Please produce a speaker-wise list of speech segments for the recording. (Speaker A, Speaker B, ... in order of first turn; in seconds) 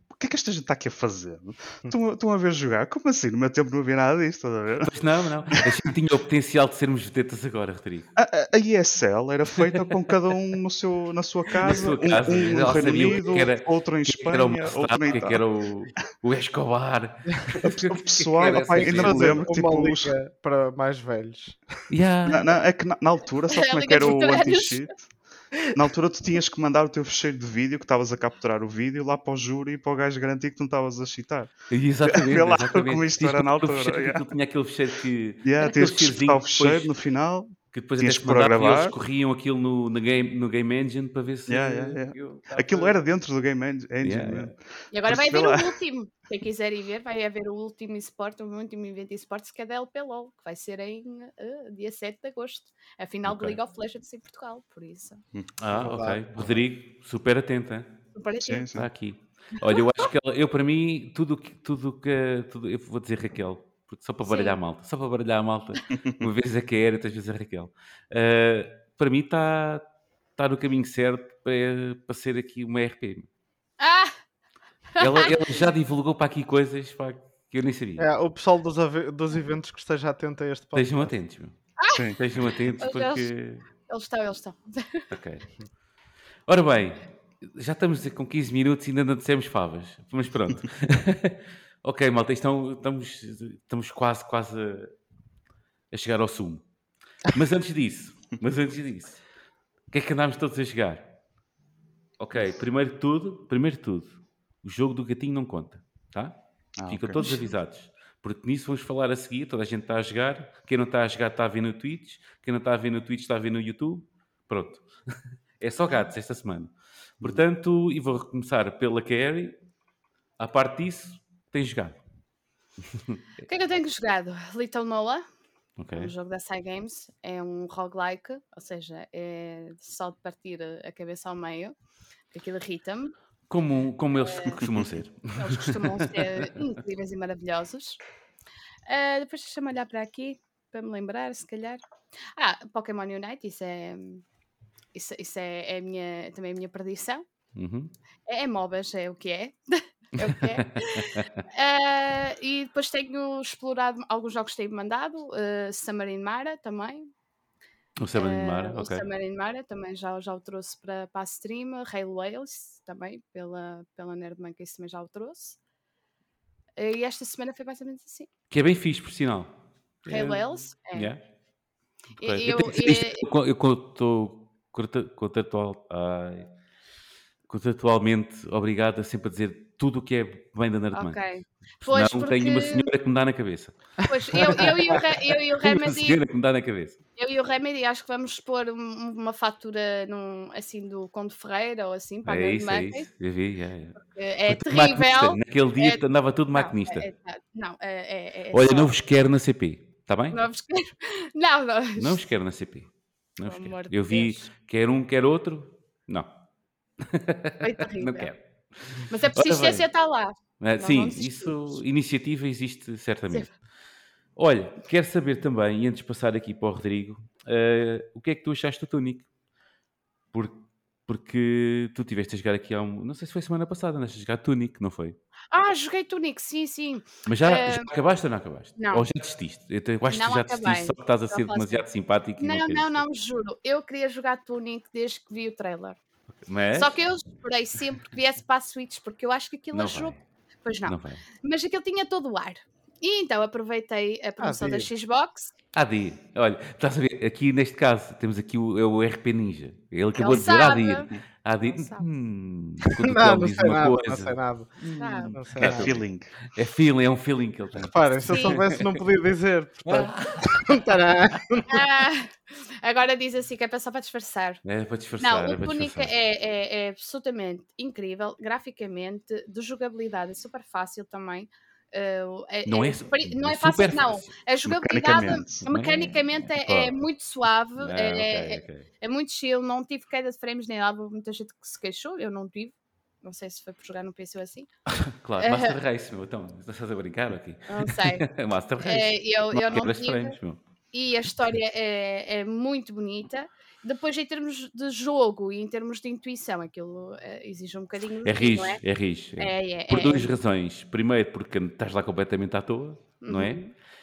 Speaker A: 0.1-4.9, 8.2-15.4, 17.6-20.1, 22.3-34.2, 35.4-38.9, 41.5-45.8, 58.4-58.9, 81.9-82.2, 106.8-107.2, 134.6-134.9, 255.6-256.4, 274.6-275.6
Speaker B: 4.8-8.1, 11.6-19.4, 21.9-22.4, 31.7-36.9, 37.7-43.0, 44.0-44.5, 53.2-53.6, 55.6-58.1, 58.7-69.8, 70.4-73.3, 75.0-78.1, 80.7-81.5, 82.1-83.6, 85.1-85.5, 86.5-94.9, 95.9-96.6, 97.2-99.2, 99.9-101.1, 102.2-114.8, 115.6-119.5, 120.4-122.0, 125.8-126.1, 133.5-136.3, 147.5-147.9, 150.2-151.3, 158.0-159.0, 168.5-171.2, 172.2-176.5, 177.5-181.2, 181.8-185.0, 185.6-187.0, 192.2-197.1, 198.5-200.4, 202.0-206.3, 207.0-209.8, 210.6-213.6, 214.3-219.3, 220.3-225.2, 227.2-233.0, 236.4-236.9, 239.7-240.2, 240.8-241.2, 245.7-259.0, 259.8-260.8, 264.6-266.1, 272.6-274.3, 275.6-276.9, 277.8-278.9, 285.0-290.6, 298.2-303.6
Speaker C: 18.8-21.9, 55.7-56.2, 78.0-81.1, 244.4-244.9, 253.0-255.9, 257.9-261.8
Speaker D: 23.5-24.8, 44.9-55.2, 58.1-58.7, 64.2-64.6, 73.8-74.2, 74.9-75.6, 82.8-83.3, 83.9-85.1, 107.2-107.4, 123.5-125.2, 125.9-131.7, 132.3-133.1, 134.2-134.6, 135.3-138.0, 138.9-141.8, 142.3-144.2, 144.9-147.2, 148.3-157.1, 158.1-165.6, 166.8-168.3, 170.1-171.1, 172.2-173.2, 180.9-182.9, 184.1-186.2, 187.2-193.1, 194.0-196.0, 196.5-198.9, 200.3-202.2, 203.4-204.5, 207.6-208.3, 209.1-211.8, 225.5-228.0, 228.8-229.1, 230.1-231.8, 232.4-236.0, 236.7-245.5, 250.1-251.1, 251.7-252.1, 255.0-255.4, 258.3-258.5, 261.7-264.6, 265.2-284.7, 285.4-285.8, 287.7-288.2, 288.8-290.4, 290.9-298.8, 299.4-300.3, 303.2-303.7